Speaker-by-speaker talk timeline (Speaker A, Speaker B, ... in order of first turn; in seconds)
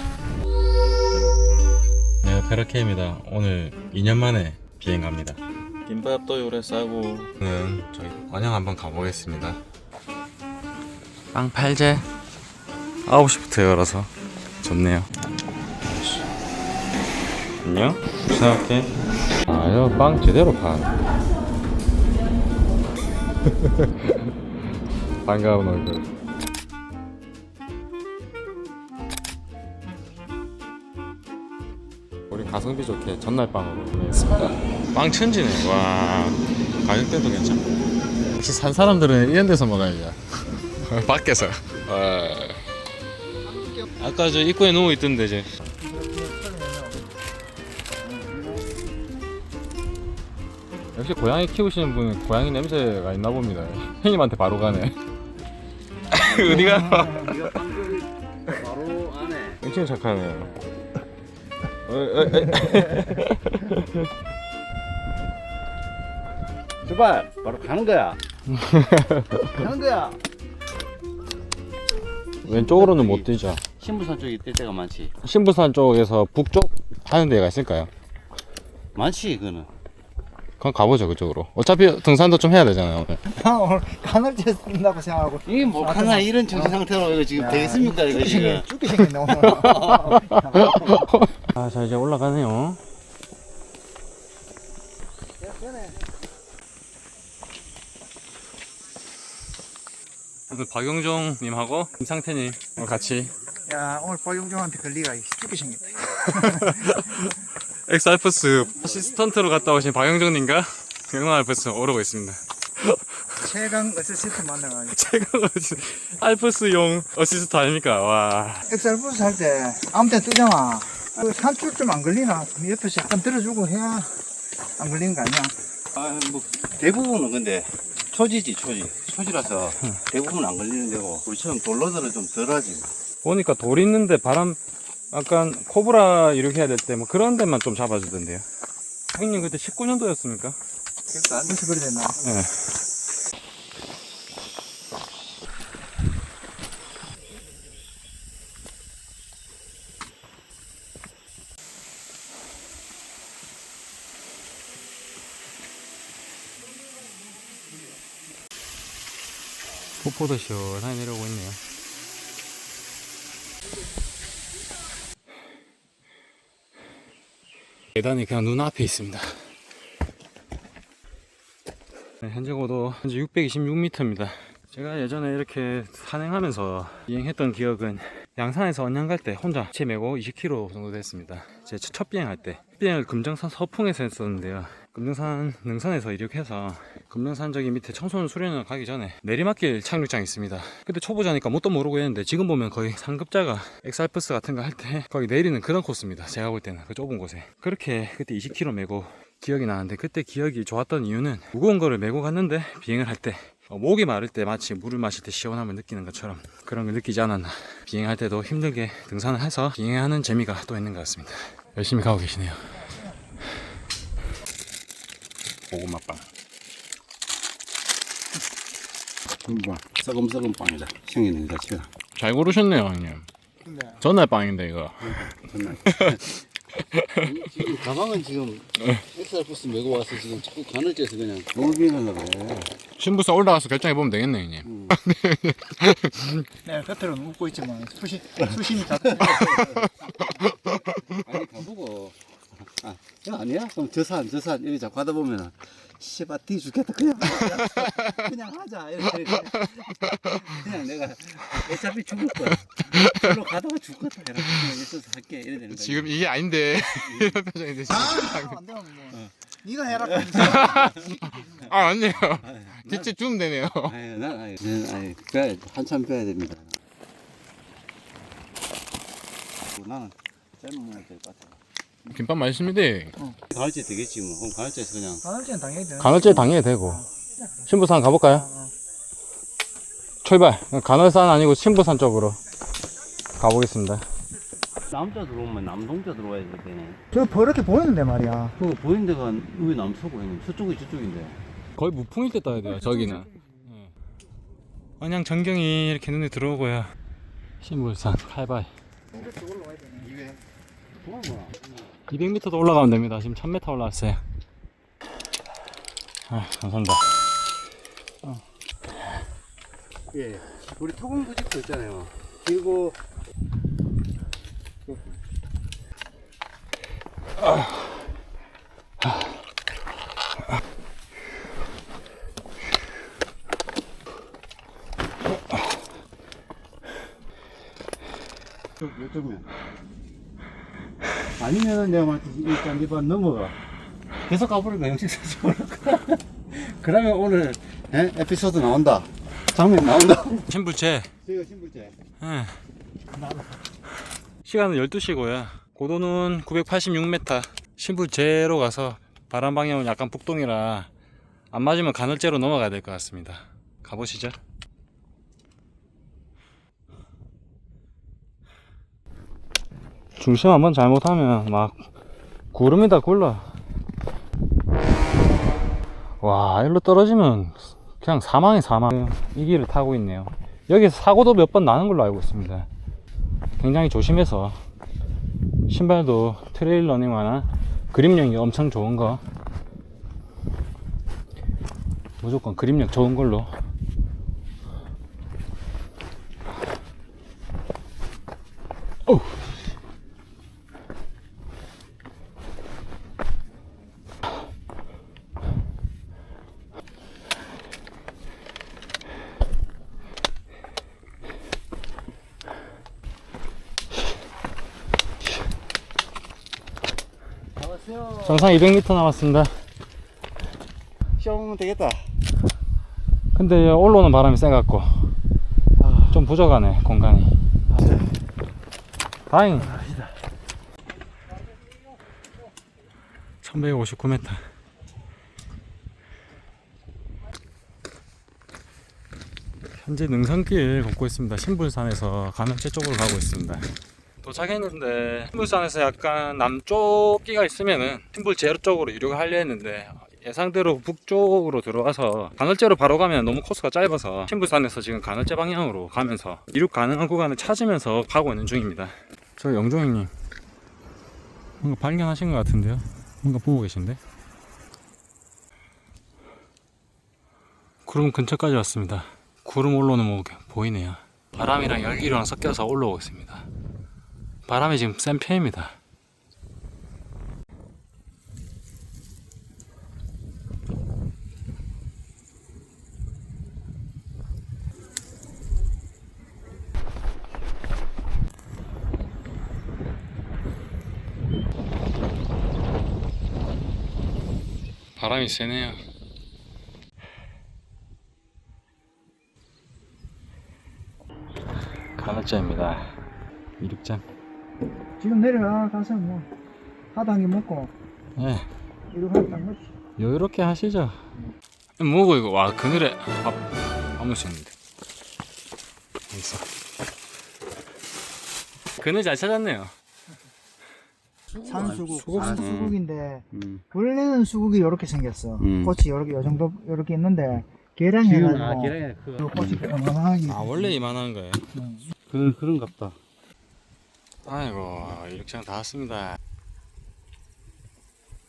Speaker A: 2.2-9.6, 11.3-12.1, 13.1-14.1, 14.6-15.1, 15.9-16.2, 17.6-21.0, 23.6-24.3, 25.2-26.1, 32.3-37.6, 38.4-42.7, 44.0-45.5, 50.9-55.0, 56.1-57.6, 59.6-60.5, 61.9-64.1, 68.5-69.7, 72.4-73.6, 75.2-77.9, 80.6-83.2, 89.4-92.8, 100.5-103.3, 106.2-113.4, 114.9-118.7, 133.2-134.6, 135.1-138.4, 139.1-140.6, 142.2-142.6, 160.0-161.6, 167.9-169.3, 172.2-212.6, 215.7-216.2, 219.4-219.8, 222.2-223.3, 224.0-225.3, 225.9-226.2, 226.9-227.4, 233.0-236.4, 247.6-247.9, 255.7-258.6, 260.4-260.9, 261.7-263.9, 272.1-273.1, 276.0-277.1, 277.7-278.5, 280.2-282.4, 283.4-284.1, 291.8-293.9, 295.0-296.9, 297.6-298.7, 302.1-304.2, 306.3-307.1, 340.5-341.1, 342.2-342.6, 344.4-350.9, 351.5-354.4, 360.2-361.9, 362.5-363.5, 366.2-372.7, 373.6-374.6, 375.7-379.2, 382.2-383.5, 389.1-389.4, 408.2-409.5, 413.3-415.1, 416.1-417.4, 419.3-419.8, 423.4-424.4, 429.8-433.7, 434.2-450.1, 451.6-454.0, 457.9-463.5, 464.5-465.8, 485.0-485.8, 492.0-492.9, 493.6-494.0, 498.2-498.4, 500.0-501.0, 501.8-504.5, 506.1-506.4, 508.8-509.7, 511.7-512.5, 520.3-521.5, 524.2-526.2
Speaker B: 45.8-47.1, 83.3-86.8, 87.3-91.2, 103.7-107.0, 113.4-115.0, 118.7-124.2, 124.8-125.5, 141.4-142.2, 223.7-224.0, 236.7-239.9, 257.9-261.7, 275.2-276.6, 278.3-278.7, 287.1-288.6, 299.1-300.1, 343.2-343.4, 495.0-496.3, 496.9-497.7, 498.9-499.6, 511.4-520.7, 521.5-521.9
Speaker C: 56.3-59.6, 66.8-68.2, 69.5-70.2, 72.5-75.1, 79.0-79.7, 85.5-88.7, 89.5-90.1, 126.0-132.9, 141.1-141.6, 219.9-221.9, 225.0-226.4, 227.2-232.8, 234.7-235.0, 241.0-256.2, 256.8-257.4, 260.0-261.1, 262.4-263.1, 263.8-266.8, 269.7-271.6, 273.5-275.2, 284.9-287.0, 288.6-291.4, 300.0-300.4, 301.0-302.0, 310.1-313.0, 328.8-329.5, 331.4-333.6, 334.2-340.5, 341.2-342.0, 407.6-408.7, 411.2-412.1, 415.8-416.2, 417.7-418.1, 419.6-420.1, 511.3-512.8, 513.3-513.6, 515.4-515.8, 518.1-519.7, 522.1-523.0